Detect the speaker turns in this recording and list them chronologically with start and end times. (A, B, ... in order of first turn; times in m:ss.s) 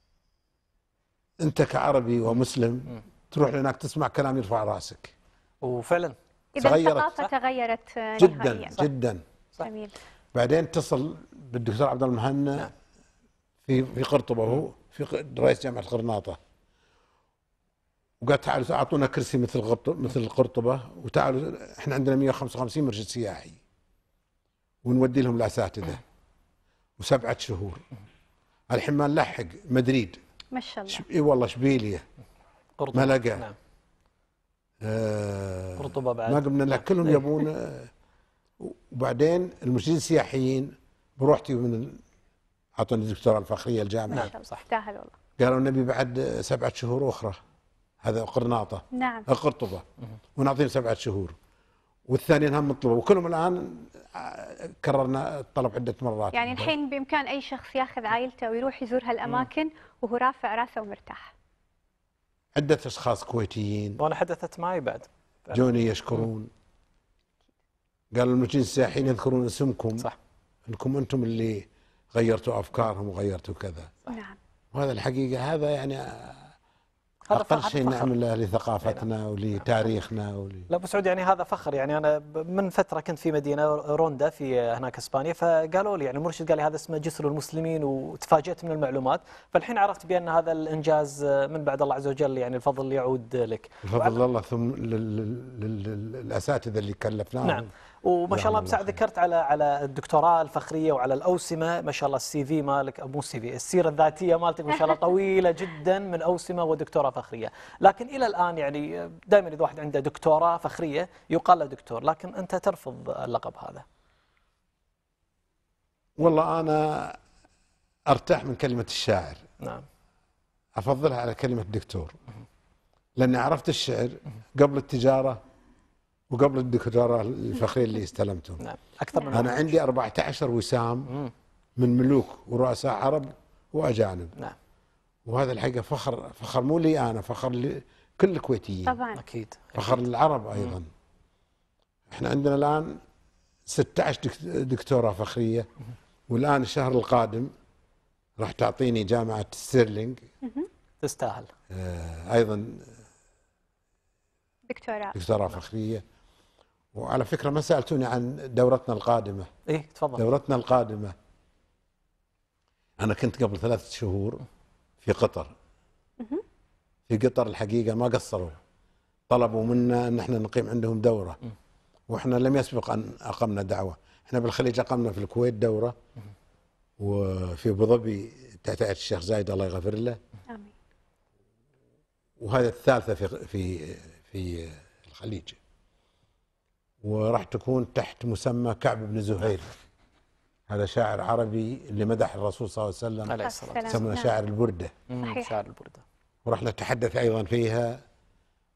0:01.4-0:05.2 A
0:05.6-0:06.2 B
0:06.6-0:07.2 A
0:06.6-0:08.8 C
0:08.2-0:09.2 A
0:09.6-0:10.0 C
0:10.3-0:12.7 A
0:13.6-0:16.4 A
0:18.2-0:23.6 A
0:24.8-0:26.0 A
0:27.0-0:27.8 A
0:28.7-0:30.2 A
0:30.5-0:31.0 C
0:30.9-0:32.0 A
0:32.8-0:33.6 B
0:32.9-0:33.5 A
0:34.8-0:37.9 A
0:35.8-0:37.2 B
0:38.6-0:42.0 A
0:42.8-0:44.3 A
0:44.1-0:44.6 B
0:44.1-0:45.2 C
0:45.4-0:47.4 A
0:48.0-0:49.8 A
0:48.9-0:49.3 C
0:50.4-0:51.4 A
0:52.1-0:56.7 A
0:56.3-1:01.3 C
0:59.2-0:59.5 B
1:02.6-1:04.0 A
1:04.0-1:05.6 B
1:05.5-1:06.5 A
1:08.1-1:10.1 A
1:10.7-1:13.9 A
1:14.1-1:14.4 C
1:14.7-1:16.5 A
1:17.3-1:18.1 B
1:17.3-1:20.7 A
1:20.7-1:34.2 B
1:33.8-1:37.7 A
1:37.4-1:53.8 B
1:38.3-1:39.0 A
1:56.2-1:57.2 A
1:58.1-1:59.4 A
1:59.6-1:59.9 B
2:00.8-2:02.2 A
2:03.2-2:05.4 A
2:06.3-2:08.6 A
2:08.6-2:09.8 B
2:09.1-2:09.5 C
2:09.3-2:11.2 A
2:11.8-2:14.4 A
2:15.3-2:19.0 A
2:18.9-2:19.2 C
2:19.2-2:20.0 B
2:19.8-2:20.9 A
2:22.1-2:23.0 A
2:23.7-2:25.7 A
2:26.3-2:27.5 A
2:28.4-2:30.2 A
2:30.4-2:30.7 C
2:31.0-2:31.5 B
2:31.7-2:32.9 A
2:34.7-2:35.2 C
2:35.1-2:36.0 A
2:36.9-2:39.5 A
2:39.7-2:40.2 B
2:40.2-2:41.1 A
2:43.0-2:44.4 A
2:45.0-2:45.5 A
2:47.1-2:48.6 A
2:49.3-2:51.4 A
2:52.1-2:56.0 A
2:57.0-3:00.2 A
3:02.4-3:05.6 A
3:07.0-3:09.7 A
3:10.7-3:14.9 A
3:13.3-3:14.0 B
3:13.4-3:14.3 C
3:15.1-3:16.0 B
3:15.2-3:15.5 C
3:16.4-3:18.0 A